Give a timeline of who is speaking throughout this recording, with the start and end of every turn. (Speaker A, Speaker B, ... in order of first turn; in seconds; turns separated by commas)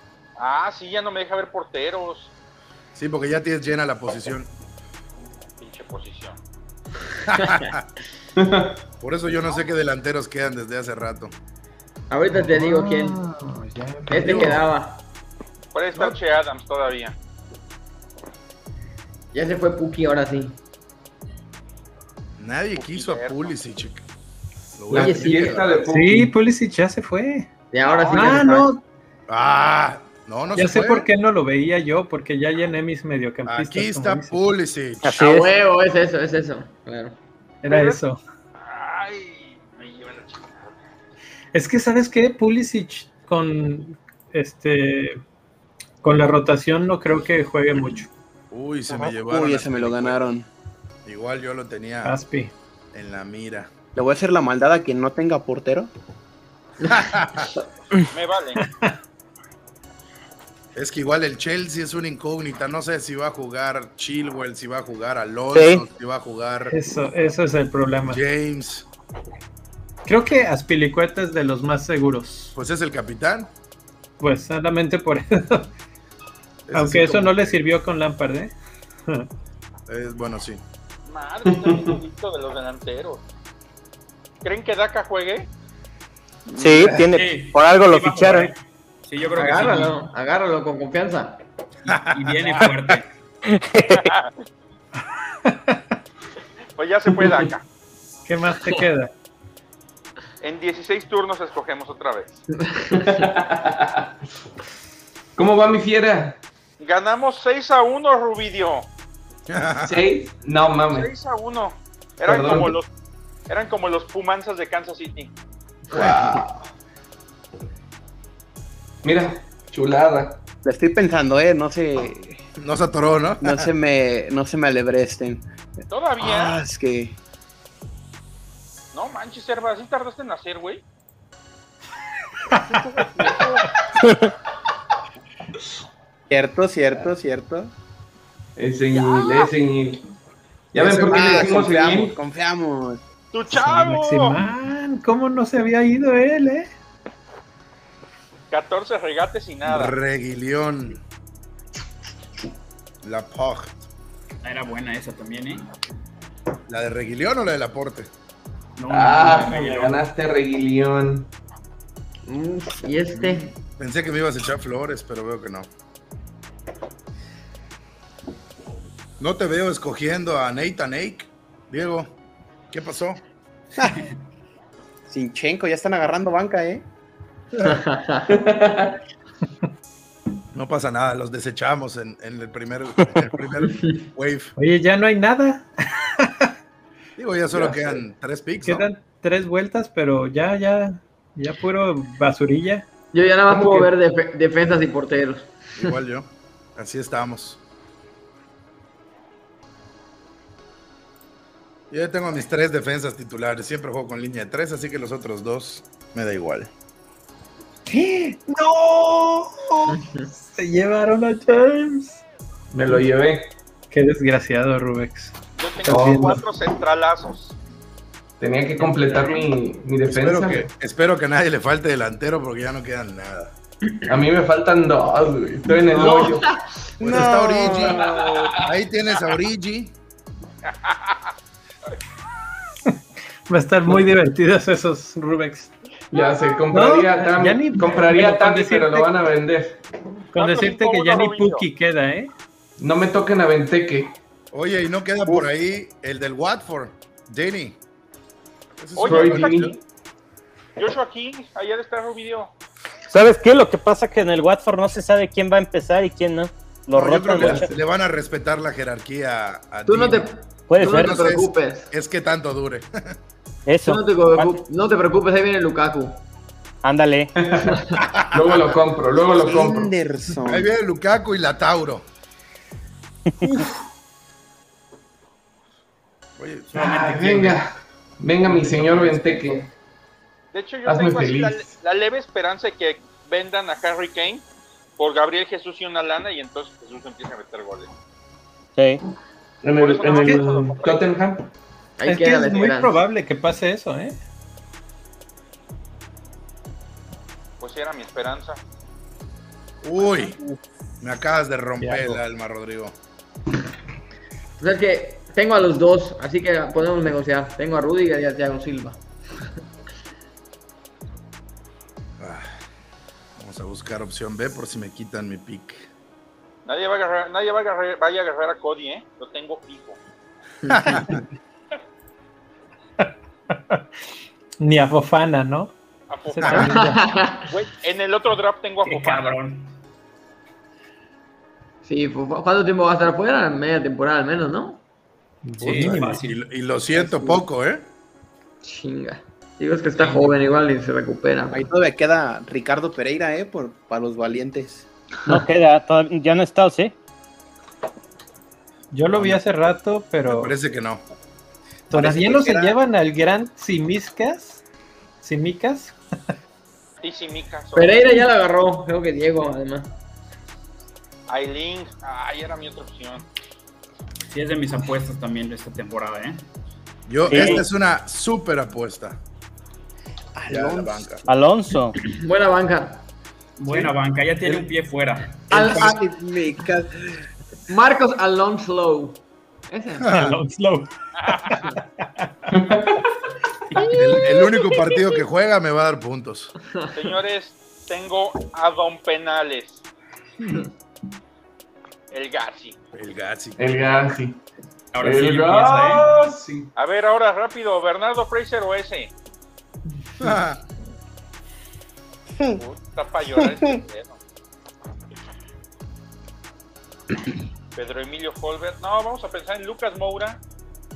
Speaker A: 0.4-2.3, Speaker B: 3.0-4.5, Speaker A: 5.6-6.4, Speaker B: 7.3-7.9, Speaker C: 8.4-8.8, Speaker B: 9.0-11.3, Speaker D: 12.1-13.2, Speaker E: 12.3-14.6, Speaker D: 14.1-15.0, Speaker B: 14.2-14.6, Speaker A: 15.7-17.1, Speaker D: 19.3-20.6, Speaker B: 22.4-24.0, Speaker A: 22.8-23.5, Speaker B: 24.8-25.9, Speaker C: 24.9-26.3, Speaker D: 24.9-25.6, Speaker E: 25.9-27.5, Speaker D: 27.7-28.7, Speaker A: 27.9-28.5, Speaker E: 28.1-28.8, Speaker B: 29.3-31.1, Speaker E: 30.6-34.4, Speaker B: 33.5-35.1, Speaker F: 35.0-35.5, Speaker D: 35.1-37.2, Speaker E: 37.6-38.2, Speaker A: 37.6-38.0, Speaker A: 38.6-40.7, Speaker E: 41.5-45.2, Speaker E: 46.0-48.1, Speaker B: 48.5-50.2, Speaker G: 48.9-50.5, Speaker B: 51.1-52.2, Speaker E: 52.0-52.5, Speaker B: 52.9-53.7, Speaker G: 54.0-55.9, Speaker B: 56.9-57.5, Speaker A: 58.1-58.6, Speaker E: 58.6-58.9, Speaker B: 60.8-66.8, Speaker F: 65.5-65.8, Speaker E: 66.7-68.2, Speaker B: 68.0-68.9, Speaker E: 70.0-72.6, Speaker B: 72.6-73.5, Speaker E: 74.2-75.7, Speaker B: 76.7-77.6, Speaker E: 76.7-78.5, Speaker B: 79.9-80.6, Speaker A: 81.1-83.2, Speaker C: 81.6-81.9, Speaker A: 84.4-85.5, Speaker G: 86.5-87.0, Speaker F: 86.6-88.5, Speaker H: 87.0-90.0, Speaker D: 89.3-91.4, Speaker B: 91.9-92.7, Speaker H: 92.1-93.1, Speaker F: 93.5-94.1, Speaker A: 93.9-94.3, Speaker E: 95.5-95.8, Speaker A: 96.8-97.6, Speaker C: 97.2-97.5, Speaker E: 98.3-99.1, Speaker A: 100.4-102.4, Speaker D: 102.5-103.3, Speaker C: 102.9-104.1, Speaker C: 105.4-106.4, Speaker A: 106.8-108.9, Speaker B: 109.5-110.0, Speaker C: 109.8-111.1, Speaker A: 110.9-112.9, Speaker C: 112.2-112.8, Speaker A: 113.5-115.3, Speaker C: 115.9-116.7, Speaker B: 116.0-116.4, Speaker C: 119.0-120.4, Speaker G: 120.6-122.5, Speaker B: 122.6-123.7, Speaker G: 123.4-125.4, Speaker A: 125.9-126.6, Speaker G: 126.2-127.2, Speaker A: 128.9-130.8, Speaker G: 132.6-133.6, Speaker G: 136.3-137.7, Speaker C: 138.6-140.0, Speaker A: 138.9-139.5, Speaker C: 140.7-142.2, Speaker G: 140.8-143.0, Speaker B: 140.8-141.4, Speaker A: 143.3-144.4, Speaker E: 143.5-146.7, Speaker A: 148.5-149.9, Speaker B: 149.7-151.0, Speaker B: 153.0-153.8, Speaker H: 154.4-155.7, Speaker B: 156.7-158.1, Speaker H: 158.8-160.1, Speaker C: 158.9-161.3, Speaker D: 162.3-163.5, Speaker B: 163.1-165.7, Speaker B: 169.2-172.2, Speaker B: 172.7-173.2, Speaker G: 173.8-174.0, Speaker G: 175.1-176.8, Speaker D: 177.6-178.3, Speaker C: 178.3-179.0, Speaker B: 180.5-184.5, Speaker E: 184.6-186.5, Speaker B: 187.2-188.9, Speaker C: 187.6-187.9, Speaker E: 188.6-192.9, Speaker D: 193.1-196.0, Speaker C: 193.5-193.9, Speaker B: 195.8-197.6, Speaker B: 201.9-206.7, Speaker E: 207.9-210.0, Speaker D: 209.9-210.3, Speaker E: 210.5-212.2, Speaker C: 212.7-213.5, Speaker E: 213.9-215.3, Speaker A: 215.6-217.6, Speaker C: 215.9-216.4, Speaker E: 215.9-216.4, Speaker C: 218.4-220.7, Speaker B: 220.1-223.5, Speaker C: 224.1-226.5, Speaker D: 225.9-226.6, Speaker B: 227.0-228.1, Speaker G: 227.0-228.5, Speaker C: 227.8-228.6, Speaker B: 228.6-229.9, Speaker A: 230.9-231.2, Speaker E: 233.5-235.7, Speaker C: 236.1-239.8, Speaker E: 236.7-239.1, Speaker A: 240.3-241.6, Speaker E: 240.3-242.3, Speaker C: 242.8-244.2, Speaker B: 244.5-247.8, Speaker B: 248.8-249.7, Speaker A: 249.0-249.8, Speaker C: 249.0-249.7, Speaker A: 250.8-252.5, Speaker F: 253.1-257.7, Speaker B: 256.9-263.2, Speaker C: 257.4-257.7, Speaker D: 259.9-261.9, Speaker F: 260.7-261.2, Speaker F: 263.7-264.0, Speaker D: 263.9-266.2, Speaker F: 266.8-267.3, Speaker C: 267.4-267.8, Speaker D: 267.7-268.0, Speaker B: 268.1-268.6, Speaker C: 268.3-269.9, Speaker G: 269.3-270.7, Speaker B: 270.4-272.0, Speaker B: 276.4-276.7, Speaker H: 276.7-277.6, Speaker C: 276.8-279.7, Speaker H: 278.5-279.0, Speaker A: 280.5-284.4, Speaker C: 280.9-281.7, Speaker A: 285.0-287.9, Speaker F: 288.8-289.0, Speaker C: 289.6-291.5, Speaker A: 289.8-291.1, Speaker D: 292.0-293.0, Speaker E: 292.1-294.2, Speaker A: 297.6-298.6, Speaker B: 299.8-300.4, Speaker B: 301.0-302.9, Speaker E: 301.8-302.2, Speaker D: 304.6-309.0, Speaker B: 312.2-312.5, Speaker B: 313.4-315.9, Speaker A: 316.7-320.0, Speaker D: 320.6-321.0, Speaker B: 320.7-321.2, Speaker E: 323.0-323.8, Speaker E: 324.6-325.7, Speaker A: 326.1-326.6, Speaker E: 326.3-327.1, Speaker B: 326.4-326.7, Speaker D: 326.5-327.5, Speaker A: 327.5-329.4, Speaker H: 328.8-329.7, Speaker D: 331.9-334.8, Speaker E: 335.4-336.2, Speaker H: 335.6-336.4, Speaker B: 335.6-337.9, Speaker D: 337.0-337.4, Speaker D: 338.6-341.6, Speaker H: 340.0-340.3, Speaker G: 341.5-344.9, Speaker F: 345.3-346.9, Speaker E: 348.9-350.5, Speaker B: 349.1-349.4, Speaker B: 350.2-351.0, Speaker E: 351.9-354.6, Speaker G: 351.9-352.8, Speaker E: 355.2-356.0, Speaker A: 357.0-358.2, Speaker D: 357.8-359.9, Speaker A: 361.3-363.3, Speaker H: 364.3-366.4, Speaker B: 367.1-369.2, Speaker F: 367.3-367.7, Speaker G: 370.4-371.2, Speaker B: 370.5-371.3, Speaker F: 371.3-372.0, Speaker D: 372.0-373.0, Speaker H: 373.6-375.4, Speaker D: 375.5-376.0, Speaker G: 375.5-377.0, Speaker D: 377.7-380.1, Speaker B: 380.0-380.4, Speaker E: 380.1-380.9, Speaker A: 381.2-381.6, Speaker C: 382.5-383.1, Speaker D: 383.8-384.3, Speaker B: 383.8-386.5, Speaker A: 386.9-389.8, Speaker A: 392.1-392.8, Speaker B: 392.9-393.9, Speaker C: 393.6-394.4, Speaker H: 394.9-396.1, Speaker C: 395.0-396.7, Speaker A: 396.8-399.1, Speaker B: 400.2-400.6, Speaker A: 402.6-404.2, Speaker A: 407.8-410.4